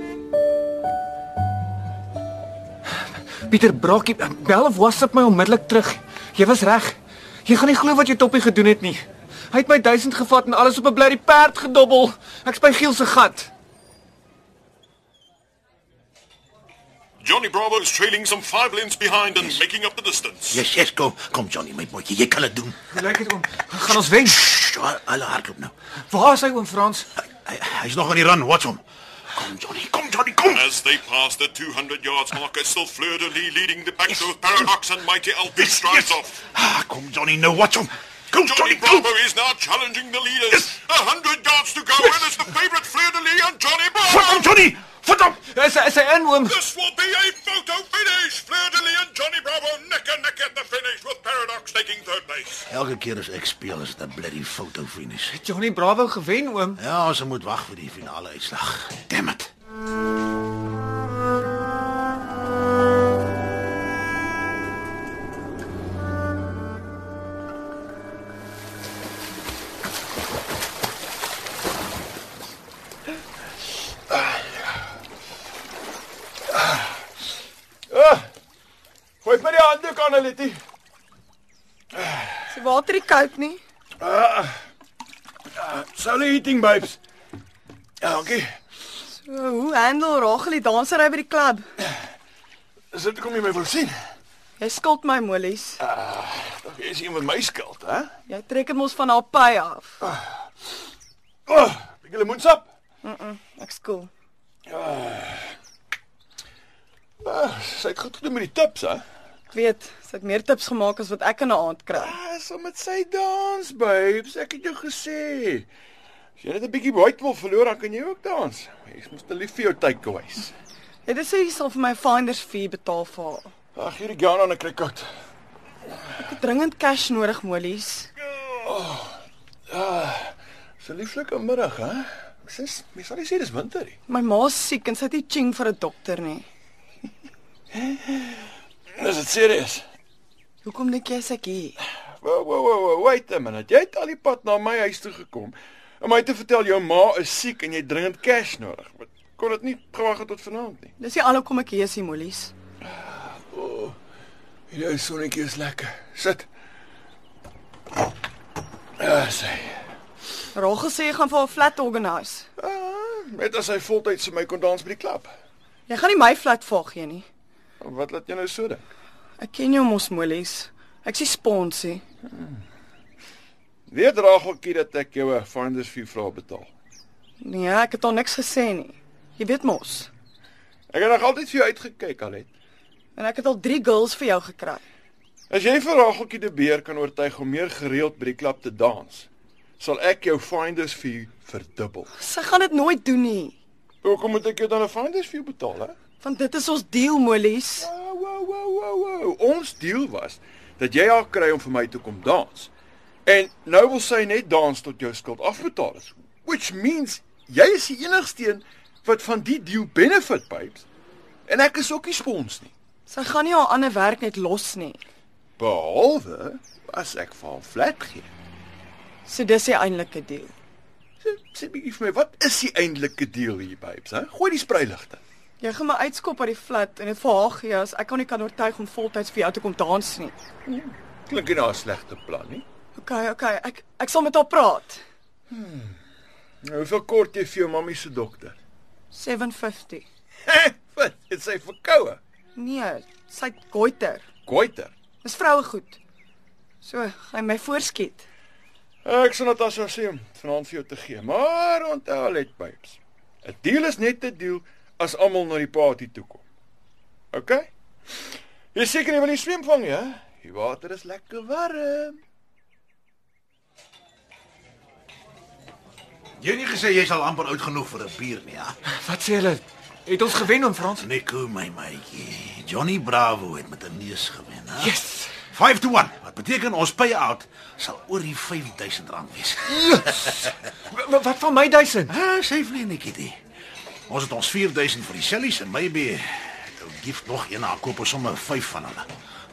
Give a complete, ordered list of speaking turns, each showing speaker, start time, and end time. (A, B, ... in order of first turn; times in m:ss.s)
0:03.4-0:13.5 A
0:17.2-0:20.6 B
0:19.3-0:19.6 C
0:20.5-0:23.0 C
0:22.9-0:24.4 A
0:24.1-0:25.7 C
0:26.1-0:27.1 A
0:27.4-0:28.8 C
0:29.3-0:30.8 C
0:30.6-0:36.3 B
0:35.6-0:39.1 C
0:38.3-0:44.4 B
0:42.0-0:42.4 C
0:44.0-0:45.4 C
0:45.4-0:46.6 A
0:46.5-0:52.7 B
0:52.7-0:55.4 C
0:55.3-0:56.8 A
0:56.8-0:59.5 C
1:14.1-1:14.4 D
1:16.5-1:16.9 D
1:17.9-1:18.3 D
1:19.2-1:20.6 D
1:22.0-1:22.3 D
1:22.5-1:23.6 E
1:24.0-1:24.6 D
1:25.6-1:27.0 D
1:28.0-1:28.5 D
1:29.0-1:31.6 E
1:32.9-1:34.0 D
1:34.6-1:35.8 E
1:35.8-1:38.1 D
1:38.3-1:40.0 E
1:41.5-1:42.7 D
1:43.0-1:44.1 E
1:44.7-1:45.5 D
1:47.2-1:49.0 D
1:49.5-1:52.2 E
1:51.9-1:55.7 D
1:56.4-2:00.5 D
2:01.0-2:03.5 E
2:03.7-2:05.0 D
2:06.2-2:08.1 E
2:08.3-2:09.2 D
2:09.7-2:14.0 D
2:14.1-2:16.4 E
2:17.7-2:19.8 D
2:20.6-2:21.8 E
2:22.2-2:30.9 D
2:31.0-2:32.5 E
2:32.8-2:34.0 D
2:34.7-2:36.5 D
2:39.0-2:39.8 D
2:40.5-2:42.5 E
2:42.6-2:45.3 D
2:45.9-2:47.2 E
2:47.8-2:48.9 D
2:49.4-2:52.0 E
2:53.9-2:56.7 D
2:57.4-3:00.1 E
3:00.9-3:02.5 D
3:03.2-3:04.8 E
3:05.5-3:09.3 D
3:09.8-3:12.1 D
3:12.2-3:13.5 E
3:14.0-3:15.9 D
3:16.2-3:17.9 E
3:17.8-3:22.7 D
3:23.2-3:30.8 D
3:31.5-3:32.7 D
3:33.1-3:35.0 E
3:35.6-3:38.3 D
3:39.2-3:40.5 E
3:41.2-3:45.2 D
3:45.6-3:50.3 E
3:50.6-3:52.6 D
3:53.0-3:55.0 E
3:55.5-3:56.0 D
3:56.6-3:58.6 D
3:59.1-4:00.0 E
4:00.4-4:02.2 D
4:02.6-4:04.2 E
4:04.4-4:04.9 D
4:05.2-4:06.0 E
4:06.8-4:08.2 E
4:09.0-4:16.4 D
4:17.3-4:17.7 D
4:18.7-4:22.2 D
4:26.4-4:28.7 C
4:29.0-4:31.0 A
4:31.0-4:40.3 C
4:34.8-4:35.3 A
4:39.7-4:40.4 A
4:40.9-4:42.1 A
4:42.1-4:43.4 C
4:44.1-4:49.1 C